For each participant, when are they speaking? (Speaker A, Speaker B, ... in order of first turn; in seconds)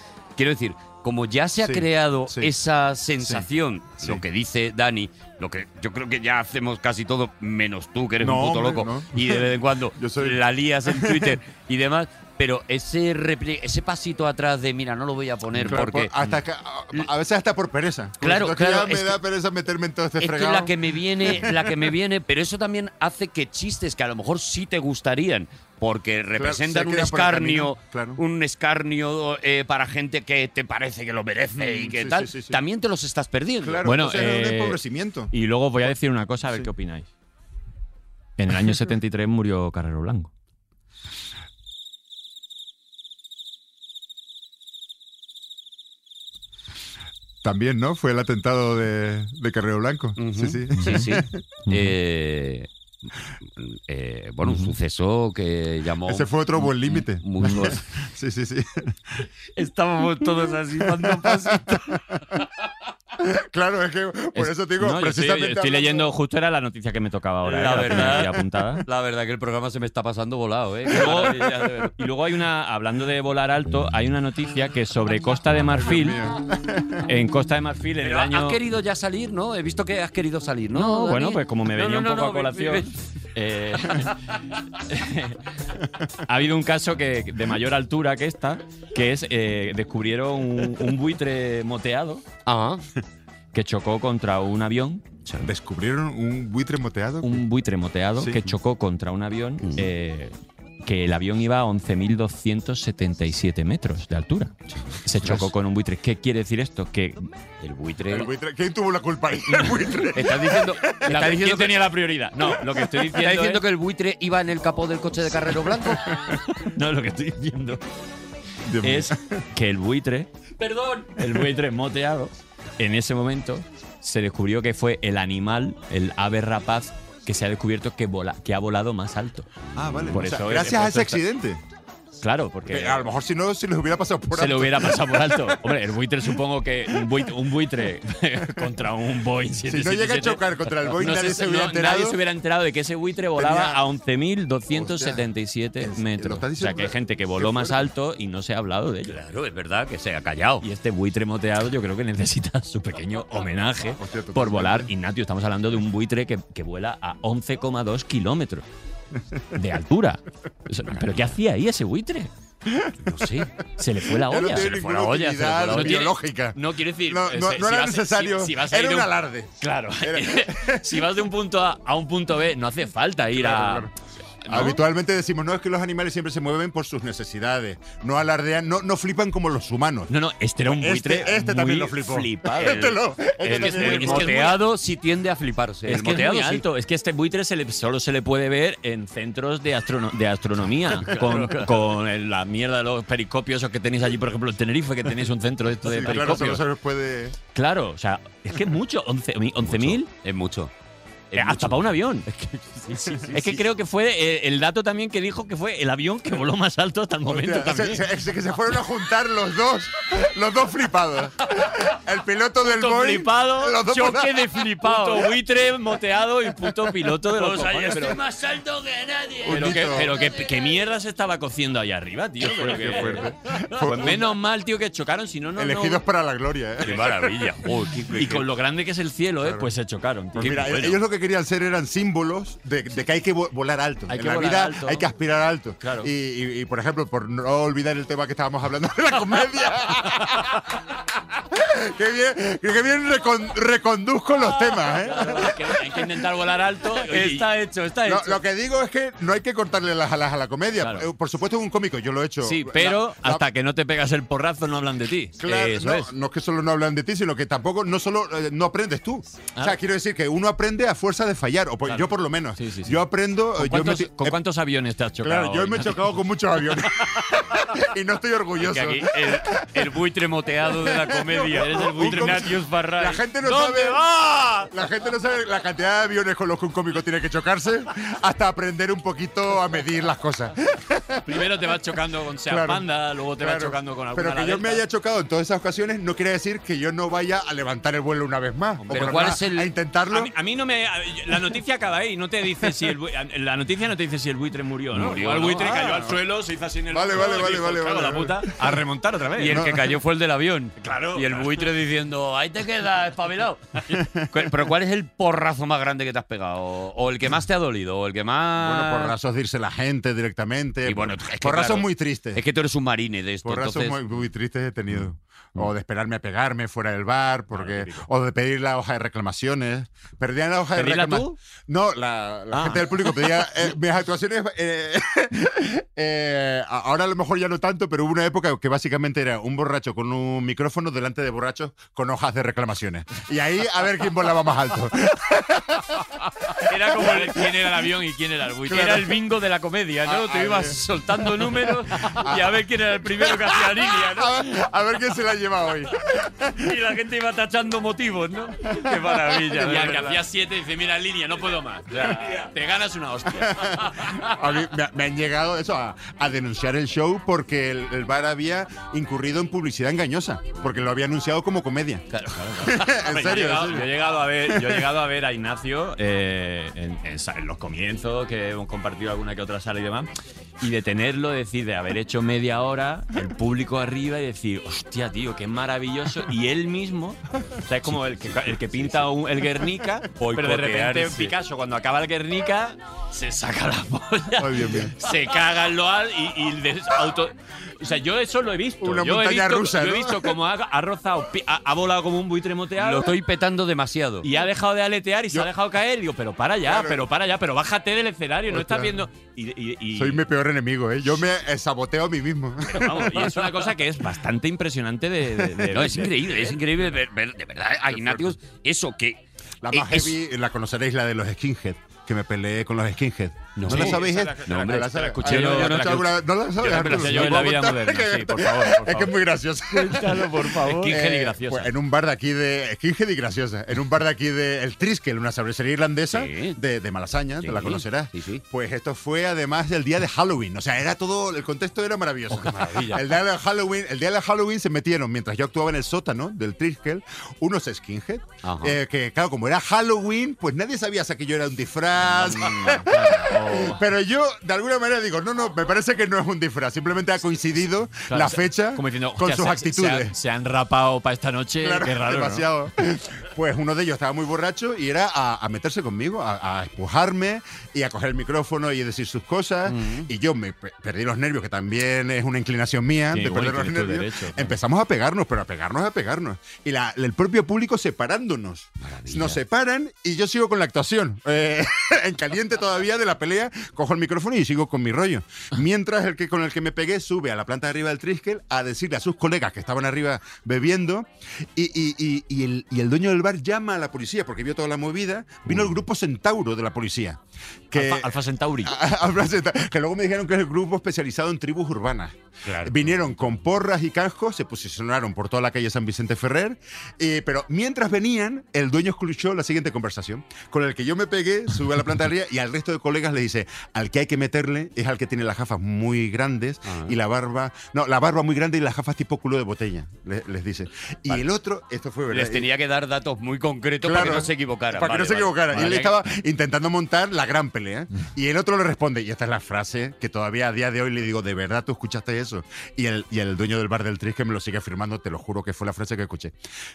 Speaker A: 0.4-16.1, 18.2-19.2, 20.2-33.9, 50.2-52.7, 53.5-57.8, 59.5-62.0, 67.4-72.0, 78.0-83.0, 92.5-92.8, 99.6-99.9, 104.8-105.5, 107.6-108.3, 110.1-111.8, 113.1-116.2, 120.6-121.1, 149.1-150.6, 163.1-163.5, 164.6-166.1, 182.6-186.6, 191.1-191.6, 199.6-200.7, 201.3-203.6, 217.3-220.4, 226.8-228.5, 245.1-245.6, 246.9-248.4, 268.6-272.5, 288.9-289.7, 294.9-295.9, 299.4-309.1, 310.9-314.0, 340.0-342.1, 348.7-350.2, 378.2-378.9, 380.2-381.3, 392.8-394.3, 402.8-403.4, 405.7-409.2, 409.7-410.2, 413.6-416.1, 416.6-417.6, 426.1-426.6, 427.4-428.4, 432.3-433.1, 438.4-438.8, 459.7-460.1, 468.8-469.4, 485.5-485.7, 492.5-492.9, 506.7-506.9, 512.1-515.9
Speaker B: 1.6-2.5, 3.2-3.5, 8.2-11.4, 15.5-21.8, 26.4-28.2, 31.6-32.6, 33.6-35.3, 47.4-51.4, 56.1-59.0, 61.0-62.0, 63.2-66.1, 75.9-77.1, 95.4-97.4, 108.1-111.2, 118.6-119.4, 129.8-131.6, 132.7-135.5, 139.7-142.2, 143.4-143.8, 144.7-145.2, 145.8-147.9, 154.0-154.9, 162.7-163.2, 164.1-171.1, 173.3-173.9, 174.5-180.1, 180.6-184.5, 195.8-197.4, 207.3-214.9, 219.4-220.2, 222.4-224.3, 225.6-227.4, 229.4-229.7, 230.3-240.7, 241.5-245.6, 248.1-253.4, 255.4-264.4, 265.2-269.8, 270.8-274.0, 274.7-281.6, 282.4-282.9, 283.4-290.3, 295.6-296.2, 296.9-298.7, 299.5-299.9, 303.9-304.3, 308.6-312.4, 313.4-336.1, 337.0-337.2, 338.7-339.1, 340.1-340.8, 342.0-342.6, 343.2-346.7, 348.8-349.2, 353.4-362.0, 362.6-363.9, 364.5-364.8, 384.4-384.9, 388.8-390.4, 396.7-397.1, 398.5-399.0, 399.9-403.1, 407.9-408.3, 409.6-450.1, 451.6-512.5, 513.8-526.4
Speaker C: 33.9-34.8, 35.3-37.1, 38.4-40.3, 50.8-51.1, 51.7-52.0, 64.4-68.8, 70.9-76.2, 77.1-78.6, 80.7-84.1, 84.9-85.4, 86.3-92.3, 93.5-95.1, 97.2-107.3, 111.0-113.6, 116.6-117.8, 118.8-120.3, 121.2-129.5, 130.1-131.2, 132.2-133.1, 134.3-149.2, 150.6-158.6, 159.5-162.3, 163.8-173.9, 174.4-174.8, 180.1-184.6, 185.9-196.6, 197.6-200.1, 201.3-202.3, 203.3-208.0, 212.6-218.2, 219.5-226.0, 228.1-231.0, 234.1-235.1, 235.8-236.1, 244.7-247.5, 250.8-251.1, 252.4-256.1, 261.9-263.0, 263.6-266.1, 271.5-274.7, 281.3-284.8, 288.8-289.4, 290.1-299.7, 300.8-301.6, 317.5-318.0, 320.7-321.4, 322.5-323.5, 336.7-344.4, 346.6-354.2, 362.3-370.1, 370.6-393.1, 394.2-400.2, 402.7-406.6, 413.6-419.1, 419.7-421.7, 442.1-443.8, 448.1-452.4, 463.1-464.6, 487.7-488.7, 515.5-515.9